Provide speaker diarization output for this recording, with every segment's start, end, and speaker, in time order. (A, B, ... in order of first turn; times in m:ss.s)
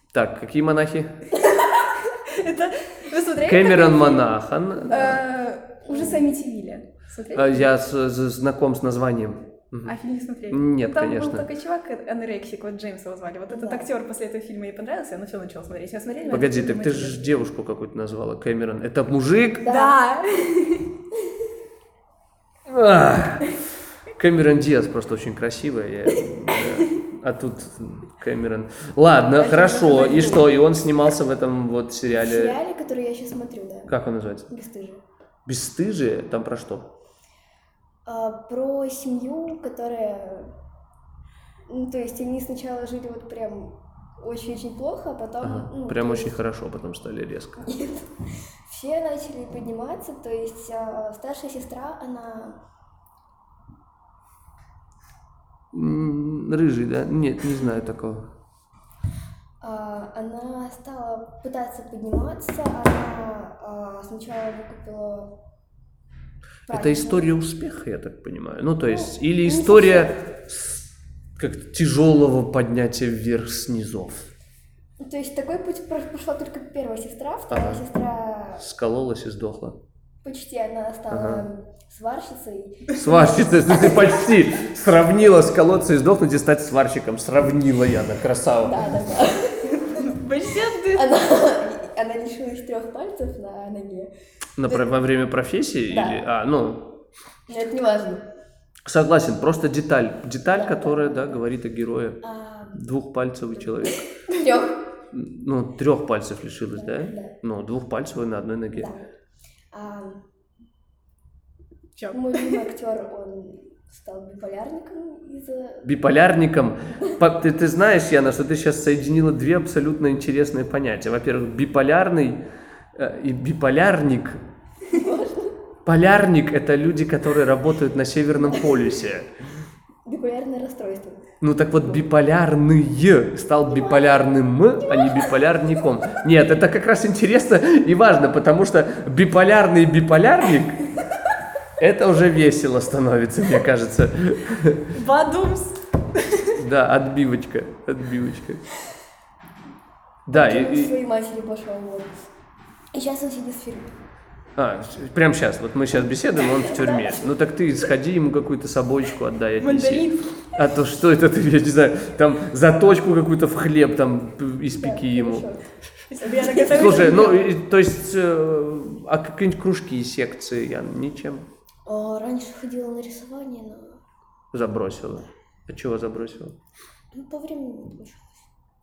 0:00.1-0:01.1 A
0:01.4-0:04.2 B
0:03.4-0:05.2 A
0:04.9-0:07.7 B
0:05.8-0:06.2 C
0:07.3-0:09.9 A
0:09.8-0:17.3 B
0:10.5-0:11.5 A
0:13.5-0:13.9 C
0:16.3-0:19.7 A
0:19.6-0:20.0 C
0:19.6-0:20.9 B
0:22.7-0:23.6 A
0:24.1-0:32.6 A
0:29.3-0:30.5 B
0:32.1-0:33.9 C
0:33.9-0:34.5 A
0:34.5-0:35.0 C
0:35.4-0:36.9 A
0:38.0-0:40.5 C
0:41.7-0:46.4 C
0:45.4-0:47.7 A
0:47.6-0:52.6 C
0:55.7-0:58.2 A
0:59.6-1:05.4 C
1:06.7-1:07.3 C
1:06.7-1:10.8 A
1:08.8-1:10.2 C
1:11.4-1:14.2 A
1:15.0-1:18.6 C
1:17.5-1:17.8 A
1:18.6-1:19.8 A
1:20.2-1:24.4 C
1:21.1-1:21.4 A
1:22.9-1:28.8 A
1:28.6-1:30.0 C
1:29.7-1:31.2 B
1:30.9-1:34.1 C
1:34.6-1:36.9 A
1:35.9-1:36.2 C
1:37.5-1:38.3 C
1:38.8-1:42.2 A
1:40.5-1:41.4 C
1:42.2-1:42.8 C
1:42.7-1:44.0 A
1:43.8-1:44.8 C
1:45.1-1:48.9 A
1:46.7-1:47.3 C
1:48.7-1:49.1 C
1:49.7-1:50.2 C
1:52.0-1:52.6 B
1:52.1-1:55.9 C
1:55.8-2:02.4 A
2:02.9-2:04.4 A
2:04.9-2:05.6 C
2:05.8-2:09.3 A
2:08.4-2:08.8 C
2:10.0-2:11.2 C
2:11.4-2:20.8 A
2:13.7-2:14.3 C
2:14.8-2:15.8 C
2:21.8-2:24.9 A
2:24.9-2:26.6 B
2:26.5-2:28.6 A
2:30.2-2:30.9 A
2:30.3-2:32.1 C
2:32.9-2:33.9 C
2:34.6-2:45.5 A
2:36.5-2:37.3 C
2:39.6-2:40.3 B
2:44.8-2:45.7 C
2:46.1-2:47.5 B
2:46.2-2:47.3 C
2:46.6-2:51.5 A
2:51.8-2:54.0 C
2:54.5-2:56.6 A
2:57.1-2:58.4 C